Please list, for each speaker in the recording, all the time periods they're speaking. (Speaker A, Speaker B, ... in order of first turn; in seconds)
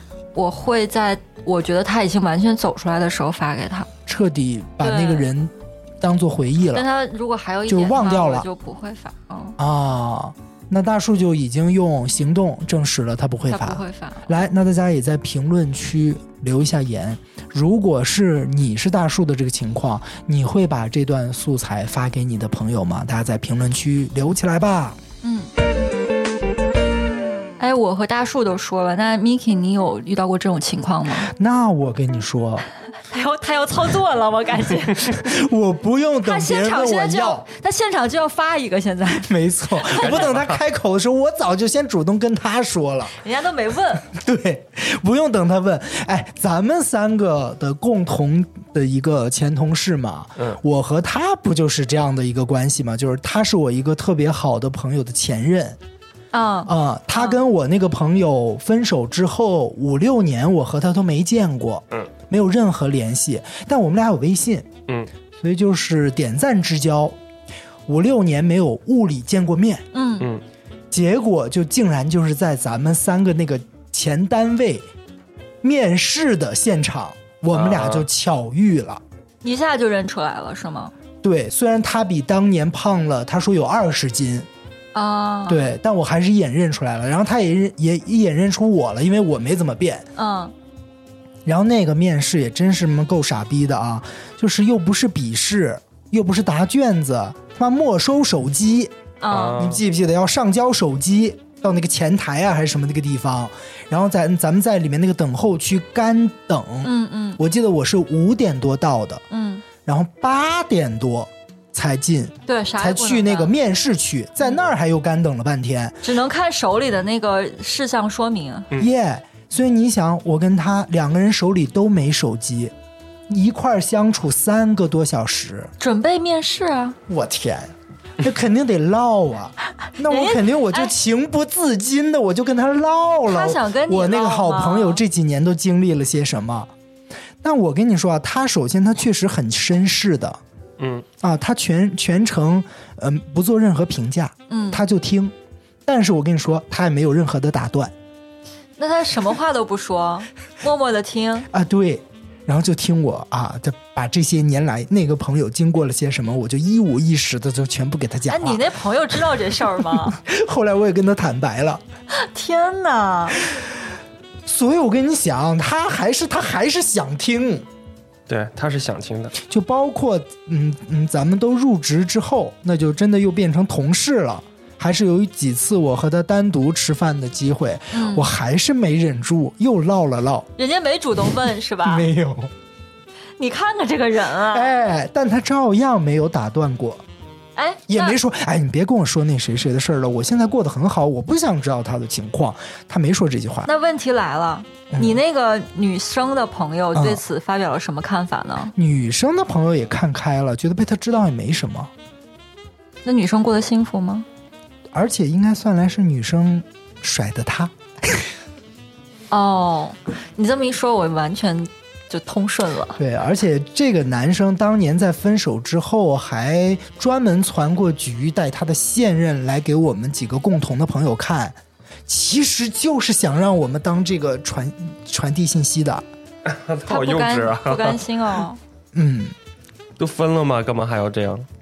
Speaker A: 0.3-3.9, 4.8-5.3, 6.7-9.6, 13.5-14.3, 25.2-25.5, 27.6-31.3, 33.1-35.3, 36.2-40.2, 43.2-44.1, 56.3-57.4, 69.9-70.3, 79.4-80.9, 84.9-85.7, 90.2-90.5, 99.2-99.7, 106.8-107.4, 109.3-109.7, 112.5-113.5, 116.0-118.7, 125.8-127.0, 130.0-130.9, 133.3-135.0, 144.5-144.8, 148.8-151.5, 158.3-160.2, 162.1-163.4, 177.9-178.3, 180.6-182.1, 183.4-184.8, 187.6-188.2, 193.7-198.7, 203.1-204.3, 209.3-213.0, 226.9-228.6
Speaker B: 4.1-6.9, 7.7-8.5, 9.6-25.0, 31.2-32.7, 35.1-37.5, 39.2-43.1, 44.1-55.8, 56.7-64.7, 65.4-67.2, 67.9-69.8, 70.9-74.9, 75.6-79.0, 81.2-84.5, 85.5-90.1, 91.5-99.0, 99.5-109.2, 109.8-116.0, 118.8-122.7, 123.3-125.7, 127.1-136.7, 137.4-140.4, 141.2-145.3, 145.8-147.9, 151.5-158.7, 159.9-161.8, 164.5-167.7, 169.4-180.5, 181.8-182.5, 184.5-187.0, 187.9-193.7, 194.9-195.2, 196.9-197.2, 198.8-201.9, 204.9-208.3, 213.0-226.1, 228.9-229.3
Speaker C: 39.9-40.6, 77.5-78.1, 99.3-99.8, 140.8-141.1, 168.3-169.4, 226.4-228.1, 230.0-231.5